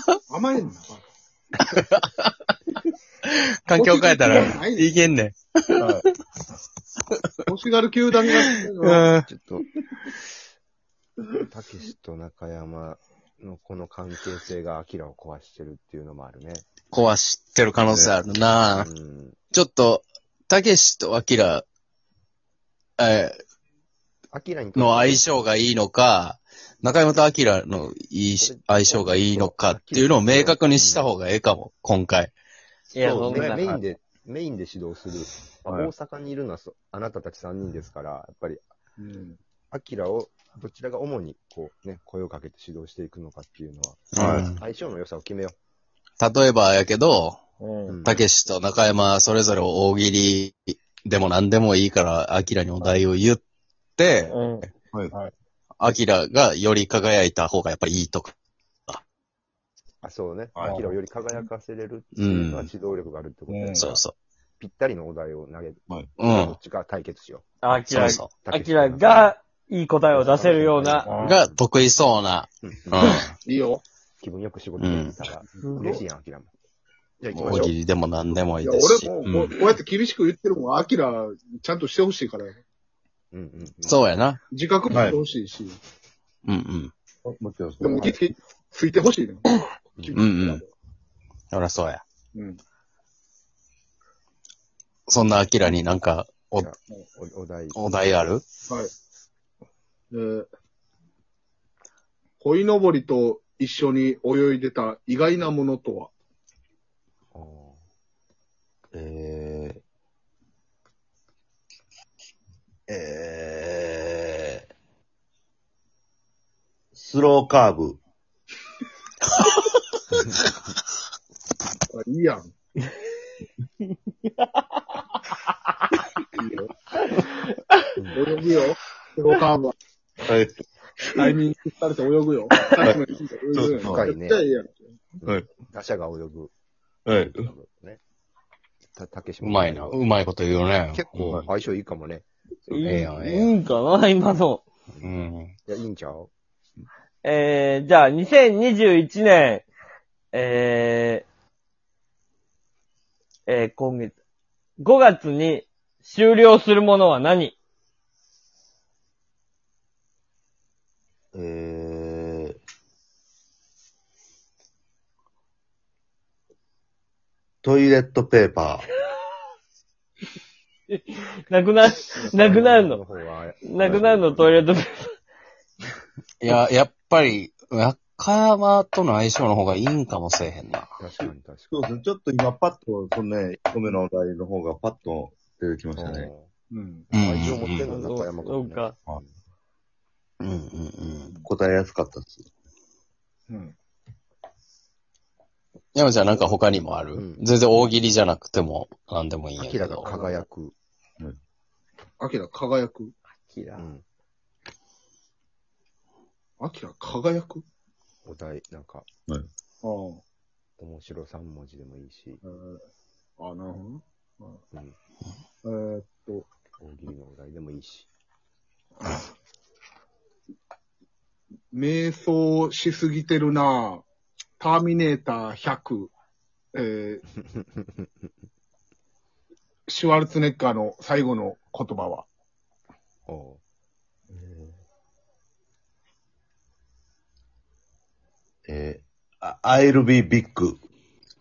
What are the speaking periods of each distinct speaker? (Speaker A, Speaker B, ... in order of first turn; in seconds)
Speaker A: 0.3-1.0, 3.7-4.9, 7.5-9.0, 39.0-39.4, 63.5-63.9, 71.0-71.4, 73.4-73.8, 75.7-76.0, 78.6-82.6, 84.5-85.8, 87.8-89.5, 90.0-90.7, 100.1-100.5, 102.4-106.1, 121.9-122.5, 126.4-126.7, 128.1-129.7, 131.1-134.7, 186.7-187.1, 193.5-193.7, 202.2-203.1, 206.6-207.6, 209.8-210.2, 212.4-212.8, 213.4-214.6, 215.6-216.5, 221.7-224.0, 224.6-226.1, 226.7-227.2, 229.9-232.2
Speaker B: 1.7-2.3, 3.3-6.0, 8.4-9.2, 16.9-18.9, 19.5-21.6, 23.0-23.4, 24.8-32.3, 44.1-44.6, 46.2-47.4, 48.0-53.4, 54.0-54.3, 55.8-58.3, 62.2-62.7, 63.8-64.1, 66.2-66.6, 67.9-68.3, 71.2-73.3, 74.8-75.2, 77.4-79.6, 83.8-84.4, 86.4-86.9, 90.1-90.6, 91.5-92.0, 95.1-96.7, 97.7-98.4, 139.4-141.3, 142.8-143.5, 145.0-145.5, 176.4-180.9, 187.1-187.9, 190.4-191.3, 195.9-200.4
Speaker C: 9.3-9.7, 11.4-16.6, 18.6-19.4, 24.3-25.7, 28.4-31.1, 33.1-38.6, 39.7-45.5, 47.9-48.2, 60.0-64.0, 64.6-67.5, 68.0-69.3, 70.1-71.6, 72.6-73.2, 74.2-76.5, 77.2-77.7, 83.3-84.0, 90.0-90.3, 96.5-97.8, 107.3-107.8, 128.0-128.2, 133.8-134.4, 135.2-136.5, 137.2-138.0, 138.9-140.0, 140.9-143.2, 145.7-146.3, 172.3-174.6, 181.0-181.7, 186.0-186.5, 187.1-189.0, 197.1-197.4, 199.6-200.7, 203.8-204.0, 208.2-209.1, 210.8-212.4, 216.8-218.1, 227.4-228.1, 233.3-233.6
Speaker D: 17.9-18.1, 32.9-33.8, 44.2-44.5, 60.5-60.9, 77.3-77.7, 84.9-85.2, 87.2-88.0, 108.9-109.8, 112.9-114.7, 116.9-118.0, 130.2-130.6, 133.5-134.1, 137.1-137.5, 141.2-141.5, 161.3-162.6, 167.6-168.8, 181.7-186.3, 191.4-192.5, 234.3-234.7, 238.7-240.8
Speaker E: 32.9-33.6, 47.6-47.9, 54.3-54.6, 67.6-71.1, 75.6-76.0, 142.7-144.6, 147.2-149.7, 150.3-151.2, 153.5-154.1, 154.8-157.5, 170.9-173.0, 173.7-175.1, 187.8-188.9, 203.4-203.9